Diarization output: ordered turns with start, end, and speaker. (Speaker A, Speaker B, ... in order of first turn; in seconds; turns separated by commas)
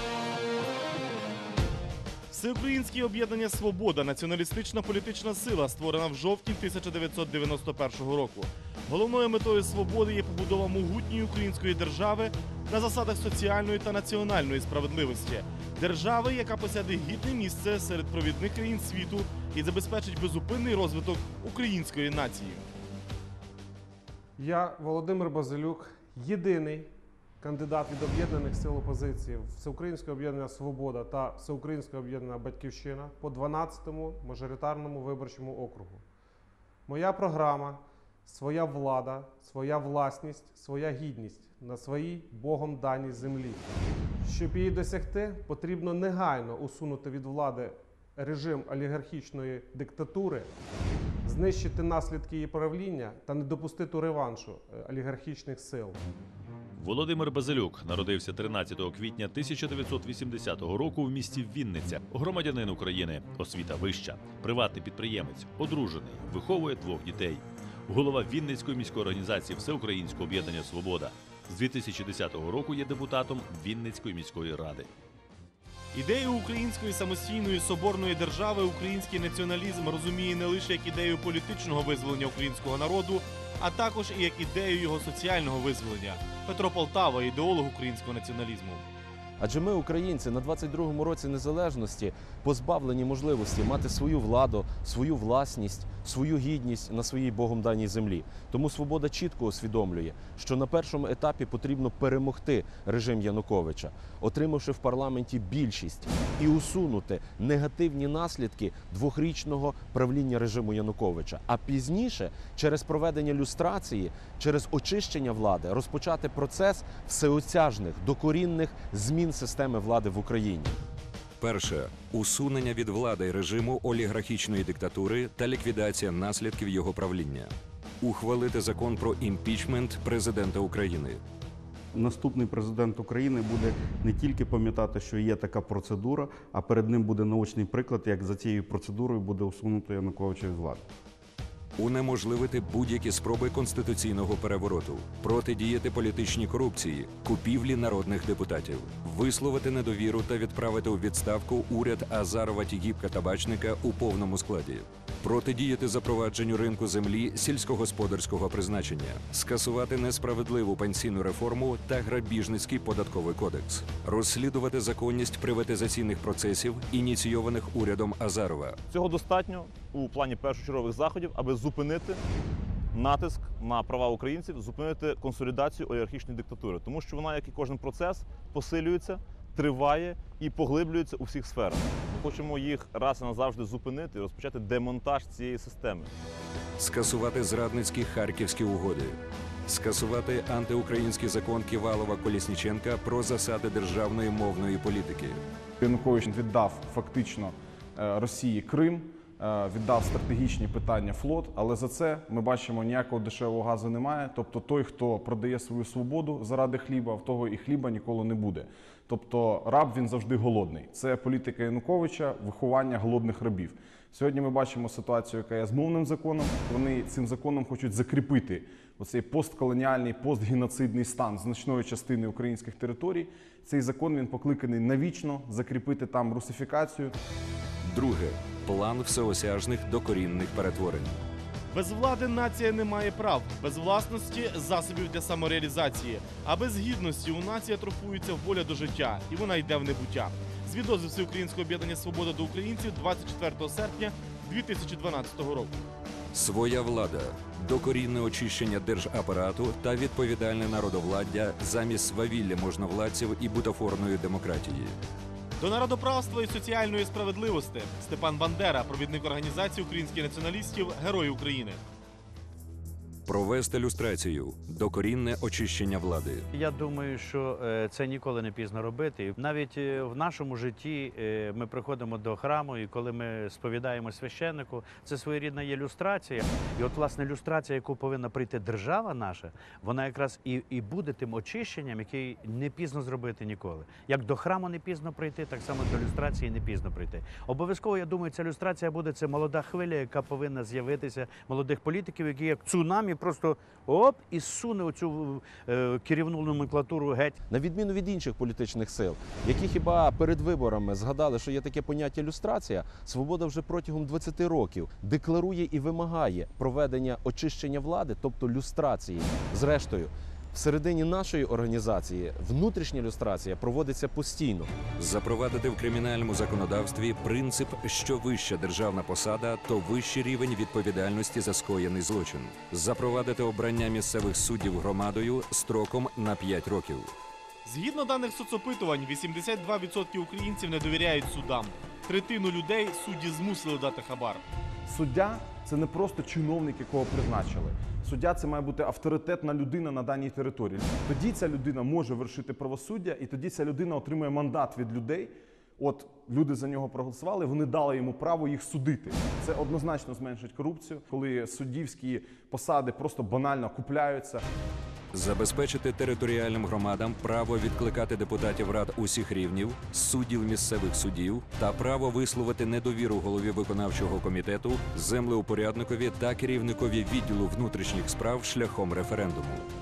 Speaker A: 2.3-22.7, Speaker B: 24.4-26.9, Speaker B: 27.4-36.0, Speaker B: 36.9-43.6, Speaker B: 44.2-50.5, Speaker B: 51.2-56.0, Speaker C: 56.8-74.9, Speaker A: 75.9-88.8, Speaker D: 89.4-120.8, Speaker E: 121.4-131.2, Speaker F: 131.9-140.8, Speaker E: 141.8-168.8, Speaker G: 168.9-172.2, Speaker G: 172.9-186.1, Speaker E: 186.8-195.4, Speaker H: 195.8-227.1, Speaker E: 227.8-231.2, Speaker A: 231.7-245.8, Speaker E: 246.3-255.0, Speaker A: 255.6-261.8, Speaker E: 263.3-266.5, Speaker I: 266.5-297.4, Speaker D: 297.5-314.8, Speaker E: 315.0-327.1, Speaker A: 327.6-334.4, Speaker H: 334.9-354.4, Speaker E: 355.1-369.7